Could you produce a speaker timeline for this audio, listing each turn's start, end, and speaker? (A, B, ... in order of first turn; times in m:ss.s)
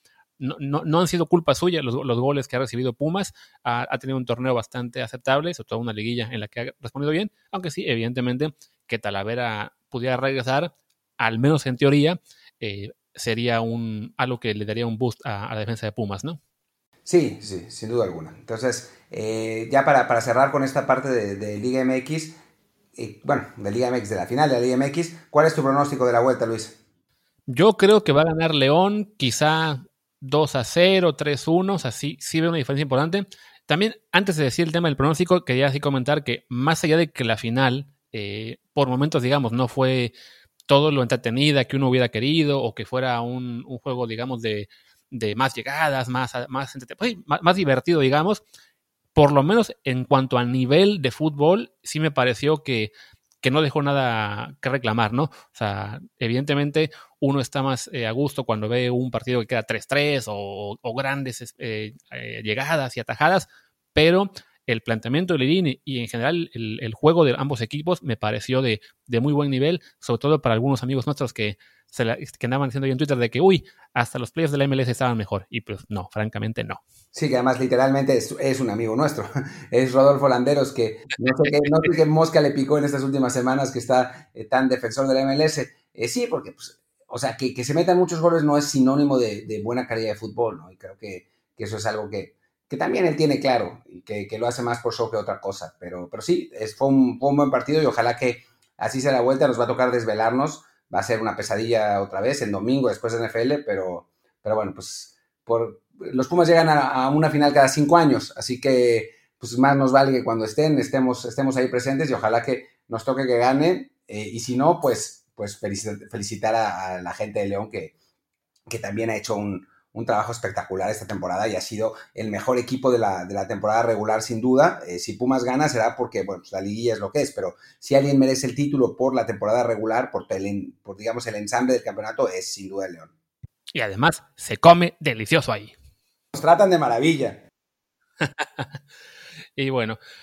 0:00.4-0:16.4 A
0:17.0-0:22.4 B
0:23.0-0:26.8 B
0:27.5-0:40.1 A
0:40.7-0:48.4 A
0:49.1-0:52.9 A
0:53.4-1:16.8 A
1:17.1-1:57.9 B
1:58.7-2:13.1 B
2:13.7-2:15.7 A
2:16.3-2:17.4 B
2:18.2-2:18.7 A
2:19.6-2:20.0 A